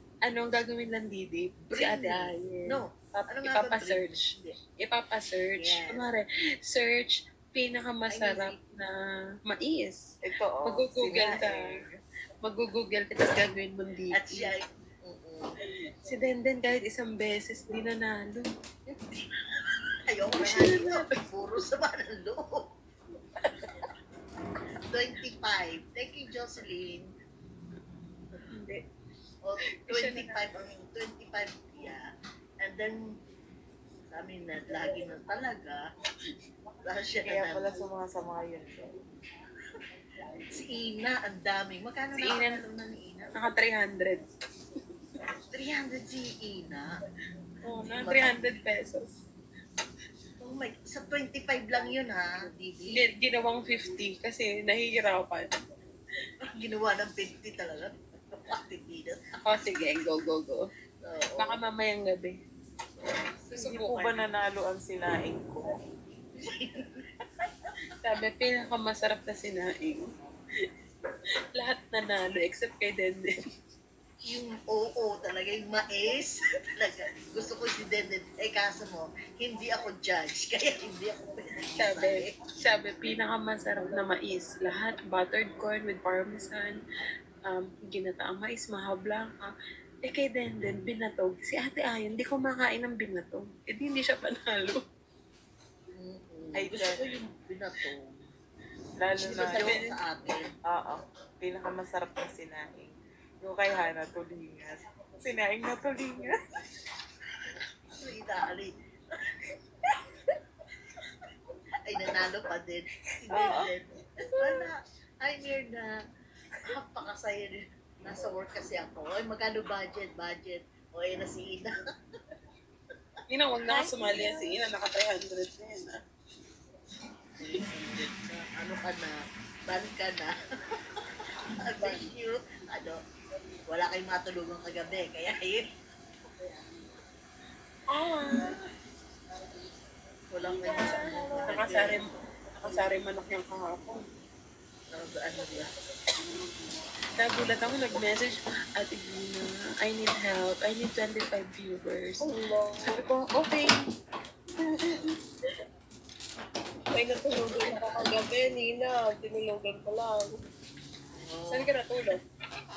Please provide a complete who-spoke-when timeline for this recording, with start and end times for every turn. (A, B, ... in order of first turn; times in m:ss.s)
0:00.2-0:04.2 A
0:01.7-0:04.6 B
0:04.8-0:08.9 A
0:05.6-0:06.0 B
0:08.1-0:08.6 B
0:09.4-0:10.0 A
0:10.2-0:11.9 C
0:10.6-0:11.6 A
0:12.4-0:14.5 A
0:14.1-0:15.5 B
0:16.0-0:18.5 A
0:20.1-0:22.6 B
0:20.4-0:21.2 A
0:24.9-0:27.1 B
0:28.5-0:28.8 A
0:29.4-0:32.0 B
0:29.8-0:30.4 A
0:32.6-0:33.0 B
0:34.1-0:35.8 B
0:36.8-0:37.7 B
0:37.2-0:38.9 C
0:40.5-0:43.3 B
0:42.2-0:42.6 A
0:43.3-0:44.2 A
0:45.5-0:46.9 B
0:47.6-0:49.2 A
0:47.8-0:48.5 B
0:50.4-0:53.0 B
0:52.9-0:55.5 A
0:56.4-0:59.4 B
0:59.4-1:00.6 A
1:01.0-1:01.6 B
1:01.4-1:02.4 A
1:03.5-1:04.2 A
1:03.5-1:05.7 C
1:06.4-1:07.0 B
1:08.0-1:10.1 A
1:11.5-1:13.2 A
1:14.2-1:22.4 B
1:21.8-1:26.8 A
1:27.5-1:29.5 A
1:30.0-1:34.8 A
1:35.9-1:38.2 B
1:36.5-1:37.0 C
1:39.0-1:39.8 C
1:39.2-1:40.5 B
1:39.2-1:40.0 A
1:40.7-1:46.4 C
1:48.0-1:48.7 B
1:51.8-1:55.9 B
1:56.6-2:01.8 B
2:03.3-2:06.0 A
2:07.4-2:10.3 B
2:11.6-2:13.0 B
2:13.7-2:15.6 B
2:17.9-2:18.6 A
2:20.3-2:22.1 B
2:20.6-2:24.0 A
2:24.9-2:25.7 B
2:27.2-2:32.2 A
2:32.2-2:33.0 D
2:32.9-2:33.8 A
2:36.9-2:40.4 D
2:41.1-2:41.7 B
2:41.5-2:42.2 D